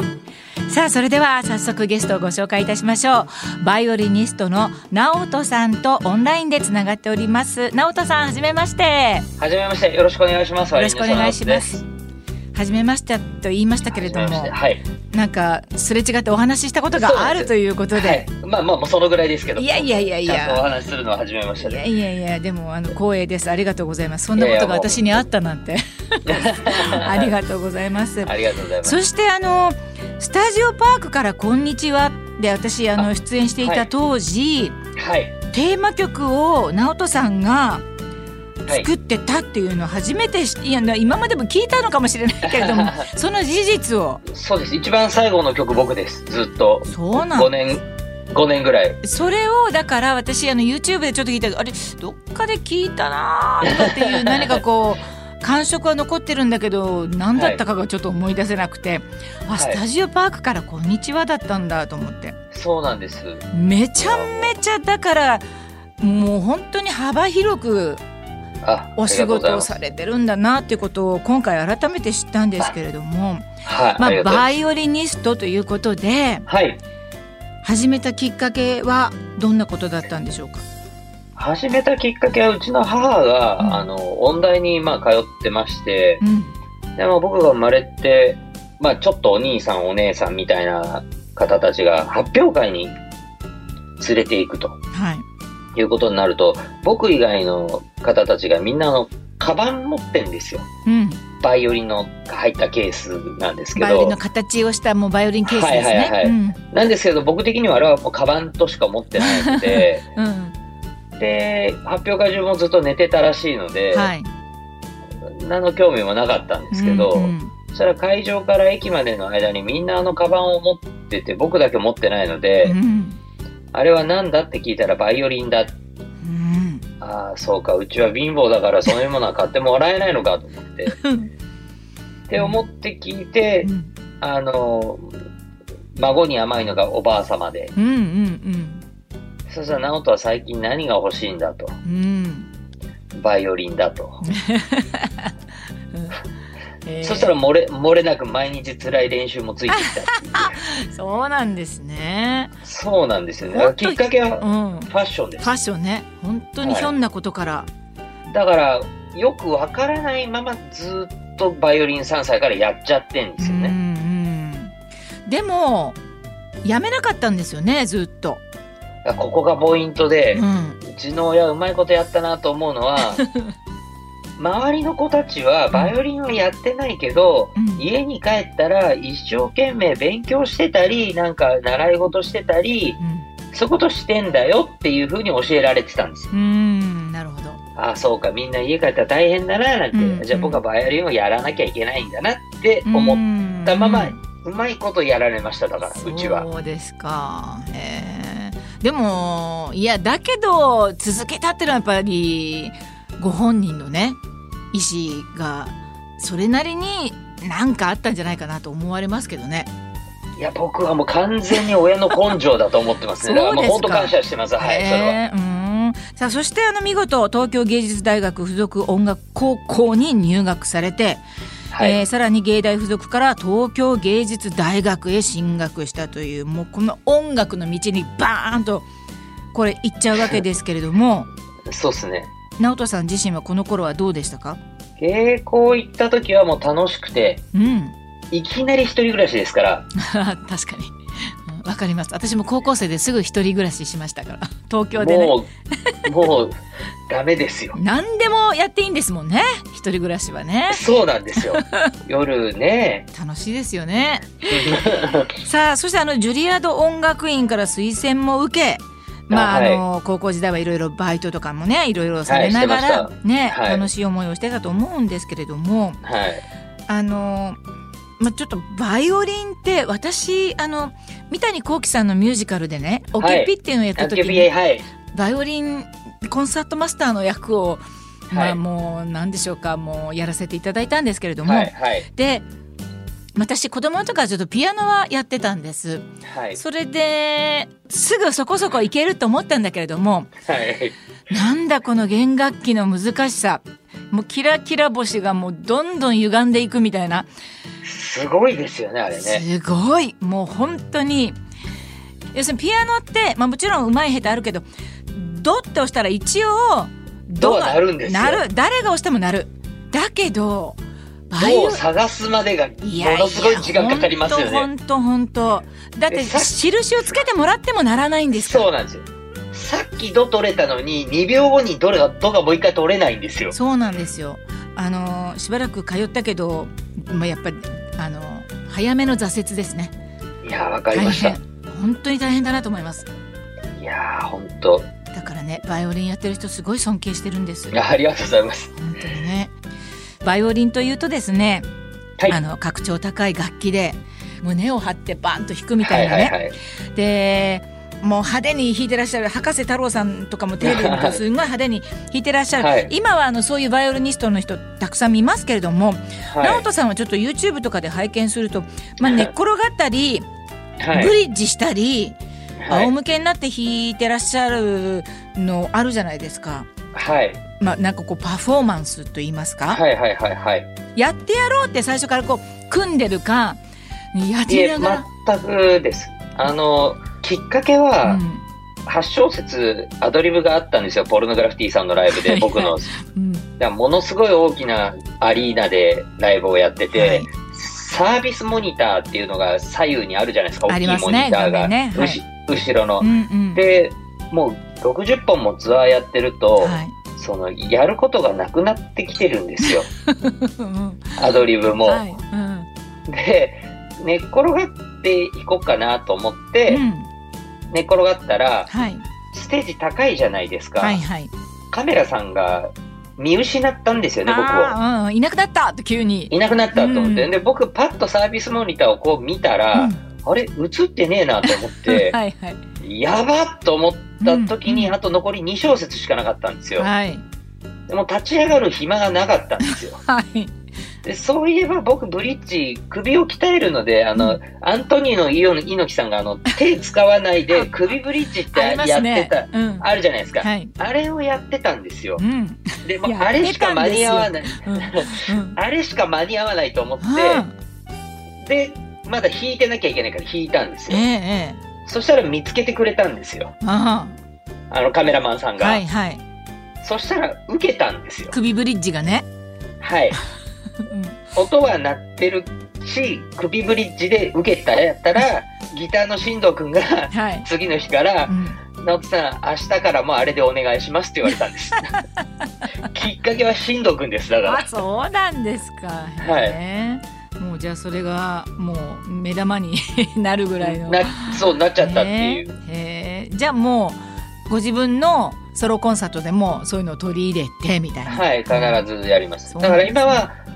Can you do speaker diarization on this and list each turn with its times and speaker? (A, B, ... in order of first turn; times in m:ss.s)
0:00.7-0:09.2 A
0:09.4-0:11.8 B
0:10.7-0:11.8 A
0:12.5-0:14.5 A
0:13.9-0:14.8 B
0:15.1-0:18.2 A
0:16.9-0:21.8 B
0:19.6-0:20.6 A
0:21.6-0:34.8 A
0:24.4-0:25.3 B
0:26.3-0:27.3 B
0:28.2-0:29.0 B
0:33.6-0:33.9 B
0:35.0-0:35.3 B
0:35.5-0:37.8 A
0:38.7-0:44.2 A
0:42.4-0:43.1 B
0:44.2-0:49.0 B
0:46.9-0:47.5 A
0:49.0-1:02.4 A
0:53.6-0:54.5 B
0:57.3-0:57.6 B
0:59.5-0:59.8 B
1:02.5-1:03.4 B
1:03.5-1:05.4 A
1:04.0-1:04.5 B
1:06.0-1:08.0 A
1:08.6-1:09.8 B
1:09.0-1:16.4 A
1:13.6-1:14.5 B
1:16.5-1:16.8 B
1:17.6-1:20.6 A
1:21.4-1:26.2 B
1:23.6-1:23.9 A
1:26.2-1:26.5 A
1:27.0-1:32.9 B
1:34.0-1:34.8 B
1:34.9-1:35.2 A
1:35.8-1:40.6 B
1:40.8-1:41.2 A
1:41.4-1:44.2 B
1:43.8-1:46.6 A
1:45.4-1:50.0 B
1:49.2-1:50.5 A
1:51.2-1:54.1 B
1:53.9-1:54.3 A
1:55.4-2:02.8 B
1:56.7-1:57.5 A
2:02.6-2:03.2 A
2:03.7-2:05.7 B
2:06.2-2:06.8 A
2:07.0-2:11.0 B
2:10.9-2:11.3 A
2:12.3-2:13.7 B
2:12.4-2:12.6 A
2:13.6-2:13.9 A
2:14.2-2:15.1 B
2:15.9-2:17.7 B
2:17.8-2:18.8 A
2:19.5-2:21.7 B
2:21.8-2:22.5 A
2:23.2-2:24.2 B
2:24.2-2:25.3 A
2:25.9-2:26.2 A
2:26.8-2:27.3 A
2:27.0-2:30.6 B
2:29.7-2:32.5 A
2:32.6-2:35.5 B
2:33.5-2:37.7 A
2:36.6-2:36.9 B
2:38.3-2:43.7 B
2:43.4-2:44.7 A
2:45.2-2:46.0 A
2:46.6-2:48.4 A
2:49.0-2:53.2 B
2:50.3-2:50.8 A
2:53.1-2:53.4 A
2:54.4-3:03.0 B
2:57.6-2:57.9 A
3:03.0-3:03.3 A
3:03.5-3:06.3 B
3:06.3-3:07.6 A
3:07.8-3:16.5 B
3:09.9-3:10.6 A
3:12.9-3:14.2 A
3:16.0-3:24.2 A
3:24.7-3:29.7 A
3:30.4-3:35.2 B
3:33.2-3:41.2 A
3:41.7-3:42.0 B
3:41.8-3:48.9 A
3:49.5-3:51.3 A
3:51.7-3:52.3 B
3:52.6-3:54.6 A
3:55.0-3:57.4 B
3:57.5-3:57.9 A
3:58.3-3:59.8 B
4:00.0-4:00.9 A
4:01.5-4:05.4 A
4:05.0-4:05.5 B
4:06.0-4:06.6 B
4:07.1-4:07.8 B
4:07.7-4:10.8 A
4:10.7-4:13.0 B
4:11.3-4:11.8 A
4:13.1-4:14.4 A
4:14.5-4:15.3 B
4:15.4-4:26.0 A
4:19.3-4:19.8 B
4:22.3-4:23.9 B
4:26.0-4:26.4 B
4:26.9-4:27.6 A
4:28.2-4:34.5 A
4:33.2-4:34.9 B
4:35.1-4:42.4 A
4:38.3-4:38.6 B
4:41.4-4:42.1 B
4:43.4-4:50.3 A
4:46.2-4:46.6 B
4:50.5-4:50.9 B
4:51.3-4:57.3 A
4:57.8-4:59.4 B
4:59.2-5:01.4 A
5:02.3-5:11.8 A
5:07.4-5:08.4 B
5:11.4-5:14.7 B
5:12.8-5:18.7 A
5:16.1-5:17.2 B
5:18.3-5:23.5 B
5:23.5-5:29.9 A
5:30.4-5:31.4 B
5:30.9-5:33.1 A
5:33.8-5:34.9 B
5:35.1-5:37.8 A
5:37.7-5:38.8 B
5:38.8-5:39.5 A
5:40.2-5:41.6 A
5:42.3-5:46.3 A
5:45.8-5:46.6 B
5:46.9-6:00.2 A
5:50.6-5:51.2 B
5:52.6-5:52.9 B
5:56.3-5:56.7 B
5:59.0-5:59.3 B
6:00.8-6:01.1 B
6:00.9-6:02.2 A
6:02.6-6:02.9 B
6:02.7-6:06.7 A
6:06.9-6:07.4 B
6:07.6-6:09.8 A
6:09.7-6:10.7 B
6:10.9-6:13.6 A
6:14.1-6:15.0 A
6:14.5-6:18.2 B
6:18.0-6:18.5 A
6:18.8-6:22.9 B
6:22.1-6:23.4 A
6:23.6-6:39.9 B
6:26.9-6:27.3 A
6:30.7-6:32.2 A
6:33.0-6:33.6 A
6:36.6-6:36.9 A
6:39.6-6:41.2 A
6:41.2-6:42.0 B
6:41.8-6:42.7 A
6:43.1-6:46.8 B
6:46.7-6:47.1 A
6:47.7-6:48.7 B
6:48.7-6:49.0 A
6:49.3-6:51.0 B
6:50.8-6:51.3 A
6:51.7-6:54.8 B
6:54.2-6:57.3 A
6:56.3-7:02.2 B
6:59.7-7:00.0 A
7:01.4-7:02.6 A
7:02.8-7:06.9 B
7:04.2-7:05.0 A
7:06.8-7:07.2 A
7:07.9-7:10.0 B
7:09.6-7:10.5 A
7:11.0-7:22.2 B
7:17.5-7:17.7 A
7:18.5-7:19.9 A
7:20.4-7:20.7 A
7:22.2-7:25.6 A
7:22.8-7:27.4 B
7:27.0-7:27.5 A
7:28.4-7:31.0 B
7:30.9-7:31.6 A
7:31.8-7:33.5 B
7:33.6-7:34.2 A
7:34.7-7:35.8 B
7:35.6-7:36.2 A
7:36.8-7:38.3 B
7:38.3-7:39.3 A
7:39.8-7:40.2 B
7:40.8-7:41.2 A
7:41.3-7:51.9 B
7:47.1-7:47.5 A
7:48.3-7:48.6 A
7:52.9-7:54.7 B
7:54.4-8:08.8 A
7:56.2-7:56.6 B
8:00.6-8:02.5 B
8:08.1-8:10.4 B
8:09.5-8:10.2 A